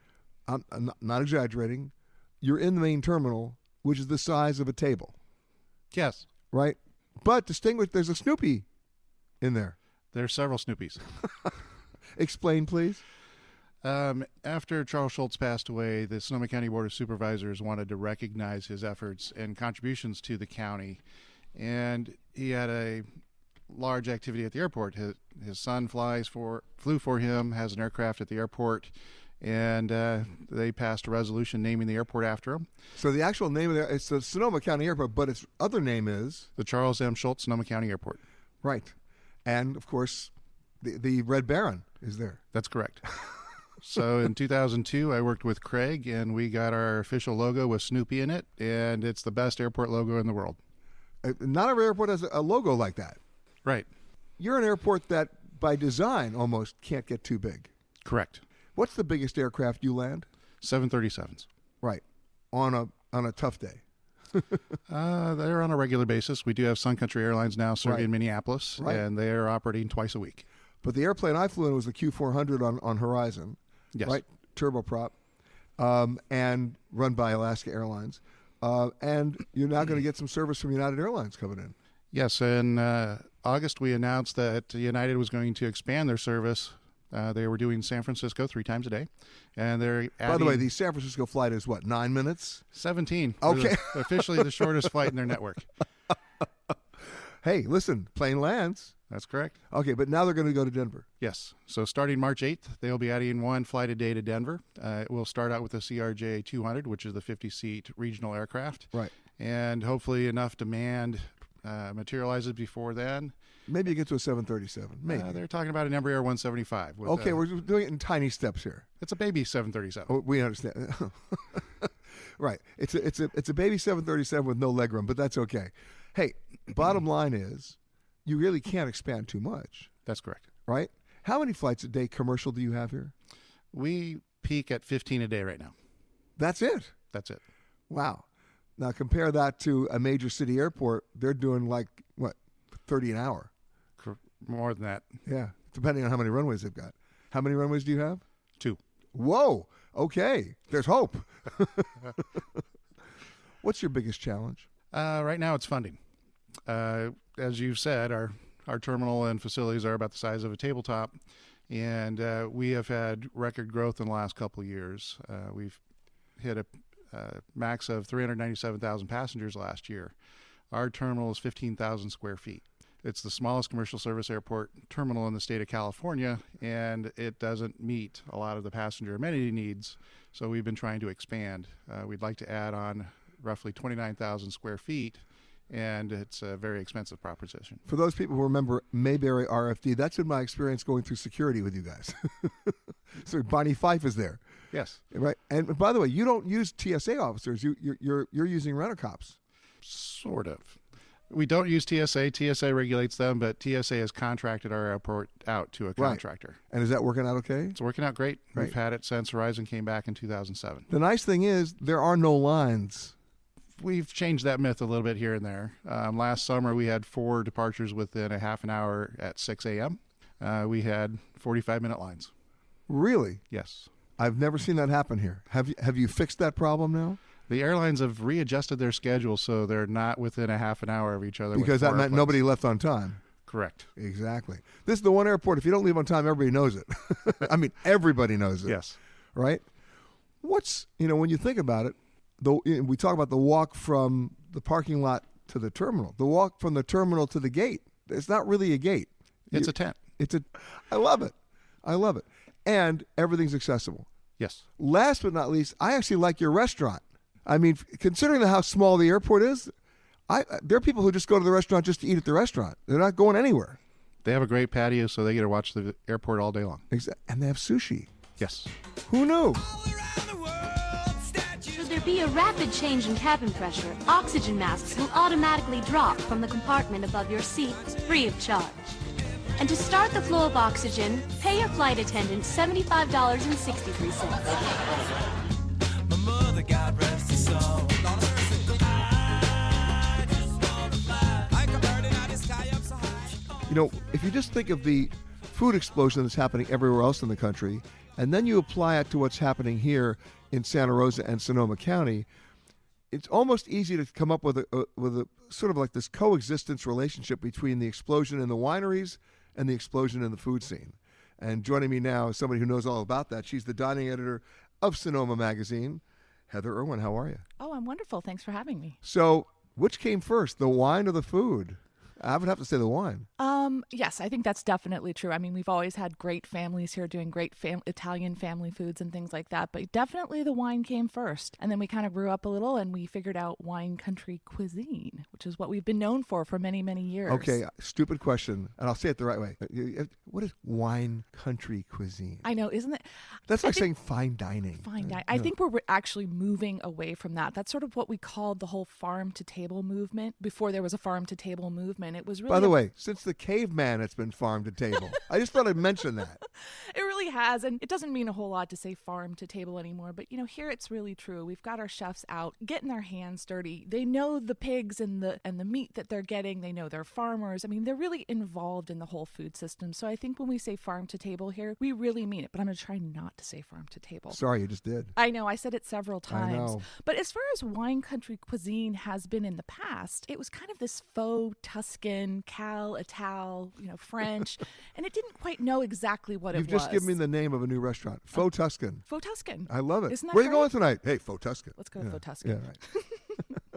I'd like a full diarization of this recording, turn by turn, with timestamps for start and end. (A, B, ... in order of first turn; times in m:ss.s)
0:00.5-0:05.1 A
0:05.9-0:06.3 B
0:06.5-0:08.6 A
0:09.4-0:09.8 A
0:10.1-0:11.0 B
0:12.2-0:13.0 A
0:13.8-0:23.1 B
0:23.7-0:32.7 B
0:33.0-0:36.5 A
0:36.6-0:38.2 B
0:38.6-0:42.4 A
0:42.5-0:43.0 B
0:43.8-0:50.6 B
0:51.2-0:53.2 A
0:54.4-0:57.7 A
0:58.0-0:58.4 B
0:58.7-1:00.3 A
1:00.6-1:01.5 B
1:01.8-1:04.6 A
1:04.9-1:10.5 B
1:07.8-1:08.1 A
1:08.8-1:09.0 A
1:10.8-1:15.1 A
1:13.9-1:14.2 B
1:15.8-1:21.7 A
1:22.1-1:30.7 B
1:30.2-1:32.6 A
1:32.7-1:35.7 B
1:33.4-1:34.8 A
1:37.4-1:39.0 A
1:39.1-1:39.6 B
1:39.7-1:41.1 A
1:41.2-1:53.3 B
1:53.7-1:55.4 A
1:55.0-1:57.4 B
1:57.0-1:58.9 A
1:59.0-2:00.2 B
2:00.1-2:09.9 A
2:10.0-2:10.5 B
2:10.7-2:13.1 A
2:13.7-2:15.7 B
2:16.4-2:17.0 A
2:17.1-2:17.4 B
2:17.9-2:23.5 A
2:24.0-2:25.2 B
2:25.2-2:28.2 A
2:29.1-2:32.4 A
2:33.6-2:34.7 A
2:34.9-2:36.0 B
2:36.6-2:45.8 B
2:46.4-2:50.2 B
2:50.7-3:07.8 B
3:07.8-3:14.4 A
3:14.7-3:15.0 B
3:15.1-3:19.4 A
3:19.8-3:26.6 B
3:26.0-3:27.8 A
3:27.7-3:30.9 B
3:30.9-3:33.1 A
3:33.8-3:42.3 B
3:42.9-3:43.4 A
3:43.5-3:43.9 B
3:44.2-3:47.2 A
3:47.5-3:52.4 B
3:51.5-3:53.2 A
3:53.4-3:53.9 B
3:54.0-3:59.6 A
3:58.6-3:59.0 B
4:00.4-4:14.1 A
4:09.5-4:10.0 B
4:14.4-4:14.6 B
4:14.8-4:19.7 A
4:20.3-4:23.8 A
4:24.2-4:26.8 B
4:26.9-4:28.1 A
4:28.4-4:28.7 B
4:29.1-4:29.6 A
4:30.4-4:31.5 C
4:31.7-4:38.9 D
4:39.6-4:44.6 D
4:46.1-4:48.7 C
4:50.0-4:53.4 C
4:53.7-5:02.3 A
5:03.1-5:17.4 A
5:17.6-5:19.0 E
5:19.0-5:23.3 A
5:23.4-5:37.6 E
5:37.3-5:42.5 A
5:42.4-5:43.9 E
5:43.5-5:45.5 A
5:44.7-5:52.8 E
5:52.5-5:56.4 A
5:56.9-6:14.4 E
6:14.3-6:15.1 A
6:15.2-6:27.1 E
6:16.3-6:16.8 A
6:26.5-6:29.0 A
6:29.0-6:30.7 E
6:29.7-6:32.8 A
6:31.8-6:33.4 E